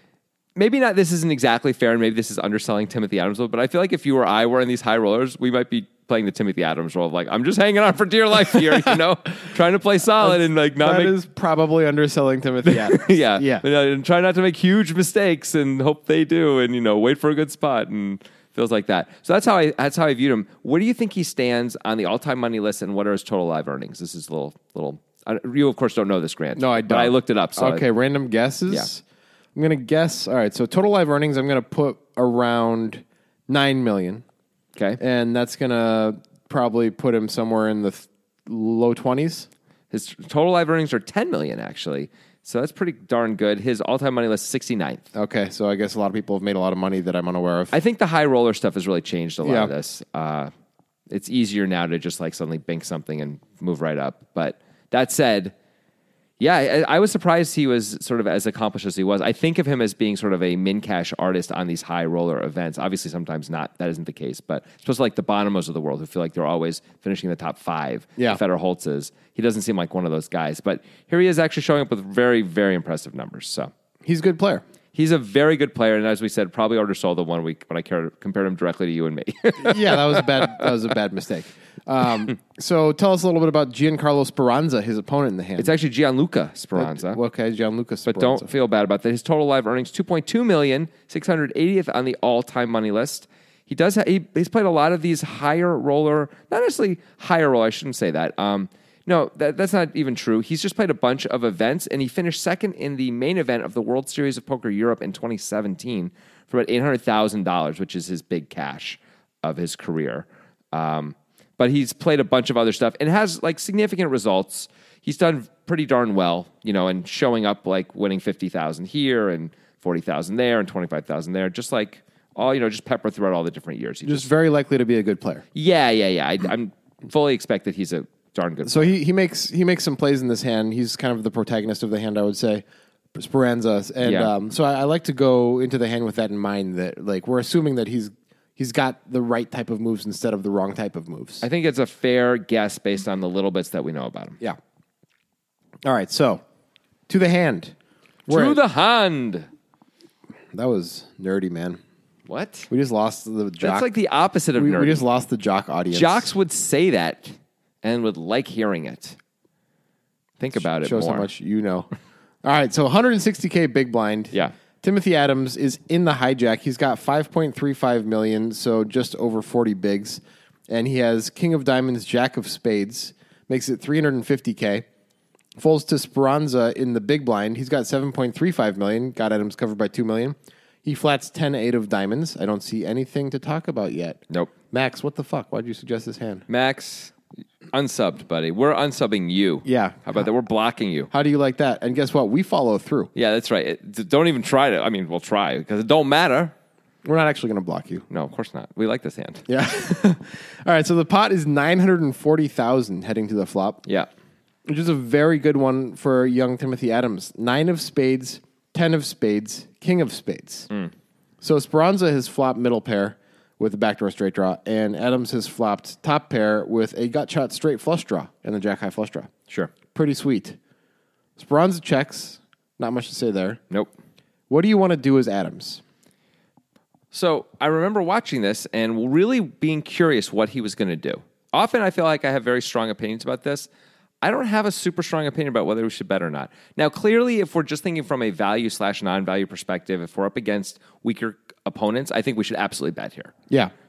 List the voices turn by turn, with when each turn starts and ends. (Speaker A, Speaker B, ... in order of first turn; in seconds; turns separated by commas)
Speaker A: 0.6-11.2, Speaker B: 10.2-13.7, Speaker A: 12.7-27.8, Speaker B: 26.6-29.0, Speaker B: 29.6-34.2, Speaker B: 35.0-39.5, Speaker A: 39.9-45.1, Speaker B: 45.1-47.7, Speaker A: 47.7-50.5, Speaker B: 49.4-49.7, Speaker A: 51.1-55.5, Speaker A: 56.4-73.7, Speaker B: 74.0-74.6, Speaker A: 74.9-80.9, Speaker B: 79.6-85.7, Speaker A: 85.6-87.2, Speaker B: 86.8-88.5, Speaker A: 88.1-124.3, Speaker B: 124.0-125.5, Speaker A: 125.5-128.9, Speaker B: 128.7-141.4, Speaker A: 134.0-134.3, Speaker A: 141.4-144.4, Speaker B: 145.8-146.4, Speaker B: 147.1-147.8, Speaker B: 148.3-148.6, Speaker A: 148.3-149.5, Speaker B: 150.5-151.8, Speaker A: 152.3-152.7, Speaker B: 152.7-153.9, Speaker A: 153.6-155.0, Speaker B: 154.6-156.3, Speaker A: 155.9-159.2, Speaker A: 160.4-161.3, Speaker B: 160.6-161.9, Speaker B: 162.4-174.9, Speaker B: 175.6-186.5, Speaker A: 186.5-187.2, Speaker A: 187.7-191.1, Speaker B: 189.7-190.1, Speaker B: 191.1-193.1, Speaker A: 193.2-196.5, Speaker B: 197.1-198.1, Speaker A: 198.1-199.4, Speaker B: 199.5-203.8, Speaker B: 204.7-210.7, Speaker B: 211.4-219.3, Speaker A: 219.5-219.7, Speaker B: 219.9-220.6, Speaker B: 221.4-223.6, Speaker B: 224.5-225.8, Speaker A: 227.1-233.7, Speaker A: 234.2-243.3